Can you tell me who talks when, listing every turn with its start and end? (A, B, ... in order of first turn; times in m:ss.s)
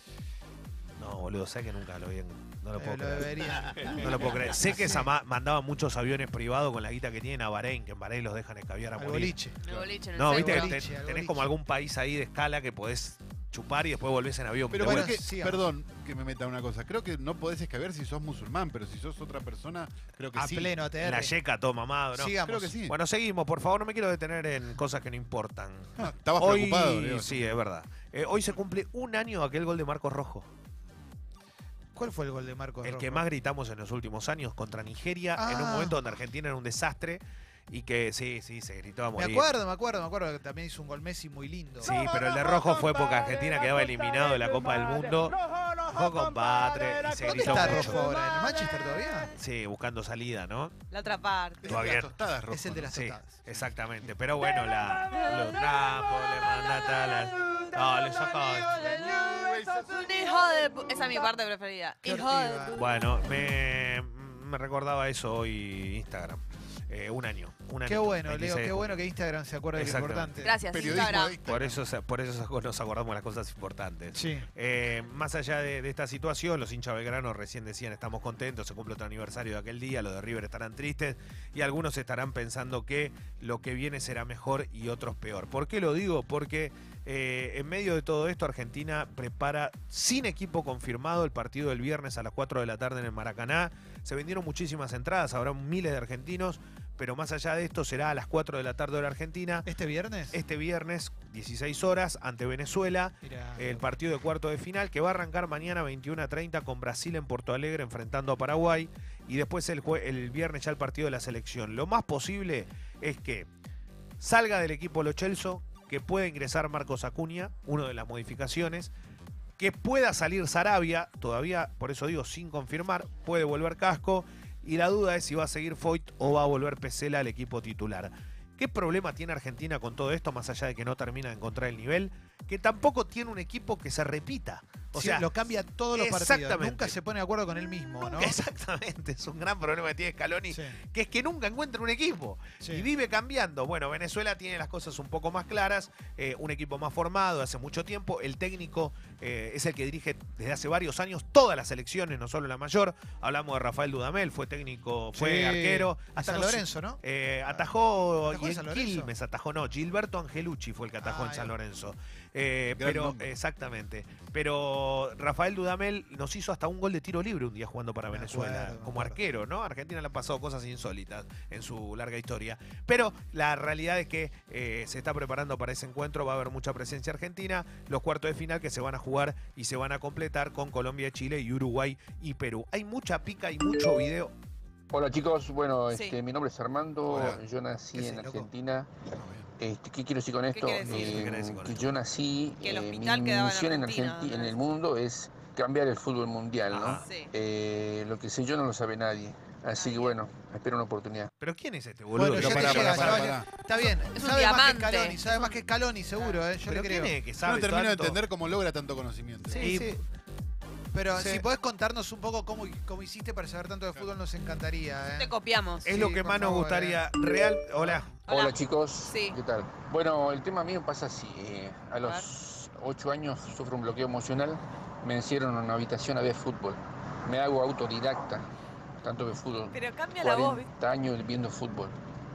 0:01.0-0:09.4 A
0:02.8-0:05.1 B
0:09.0-0:09.6 B
0:09.6-0:10.8 C
0:10.1-0:15.2 A
0:10.2-0:11.5 B
0:14.7-0:20.8 D
0:14.8-0:15.7 B
0:20.4-0:21.4 B
0:21.0-0:30.5 A
0:22.1-0:22.7 B
0:22.4-0:23.0 D
0:26.0-0:27.6 D
0:32.0-0:33.2 B
0:32.8-0:39.5 A
0:35.4-0:36.0 B
0:39.2-0:41.9 B
0:41.8-0:48.0 A
0:47.2-0:49.3 B
0:49.4-0:50.8 A
0:50.9-0:51.8 C
0:51.6-0:52.9 D
0:51.7-0:52.1 A
0:52.5-0:53.5 B
0:52.9-0:58.9 A
0:58.8-1:00.4 D
0:58.9-1:02.8 C
1:02.0-1:02.8 B
1:02.8-1:09.0 A
1:07.8-1:10.6 B
1:09.7-1:10.4 A
1:10.4-1:11.4 C
1:10.7-1:11.8 D
1:11.4-1:39.7 A
1:14.1-1:14.5 B
1:39.6-1:40.4 B
1:40.3-1:53.5 A
1:43.2-1:43.8 B
1:54.2-1:58.9 A
1:59.6-2:15.3 A
2:14.9-2:18.4 B
2:15.9-2:17.0 A
2:18.0-3:04.3 A
2:20.5-2:20.8 B
2:22.6-2:22.9 B
2:35.1-2:37.7 B
2:38.3-2:39.1 B
2:41.0-2:41.6 B
2:42.8-2:43.3 D
2:48.1-2:49.2 B
3:04.9-3:21.3 E
3:05.9-3:06.2 C
3:07.1-3:07.4 D
3:08.0-3:08.5 B
3:09.2-3:09.5 D
3:10.5-3:11.1 C
3:10.8-3:12.0 A
3:12.6-3:14.6 C
3:16.7-3:17.0 A
3:17.0-3:17.3 C
3:19.8-3:20.1 C
3:21.4-3:23.3 A
3:22.1-3:27.2 B
3:22.4-3:23.5 D
3:24.1-3:25.5 C
3:26.2-3:26.5 C
3:26.6-3:28.2 A
3:27.4-3:29.7 D
3:29.5-3:30.0 A
3:29.5-3:29.9 B
3:30.9-3:35.3 B
3:31.1-3:31.5 A
3:35.2-3:35.9 C
3:35.8-3:37.1 B
3:35.9-3:38.1 A
3:37.8-3:38.1 B
3:38.2-3:38.6 C
3:38.3-3:48.5 E
3:39.1-3:39.4 C
3:49.0-3:52.0 E
3:49.7-3:50.7 C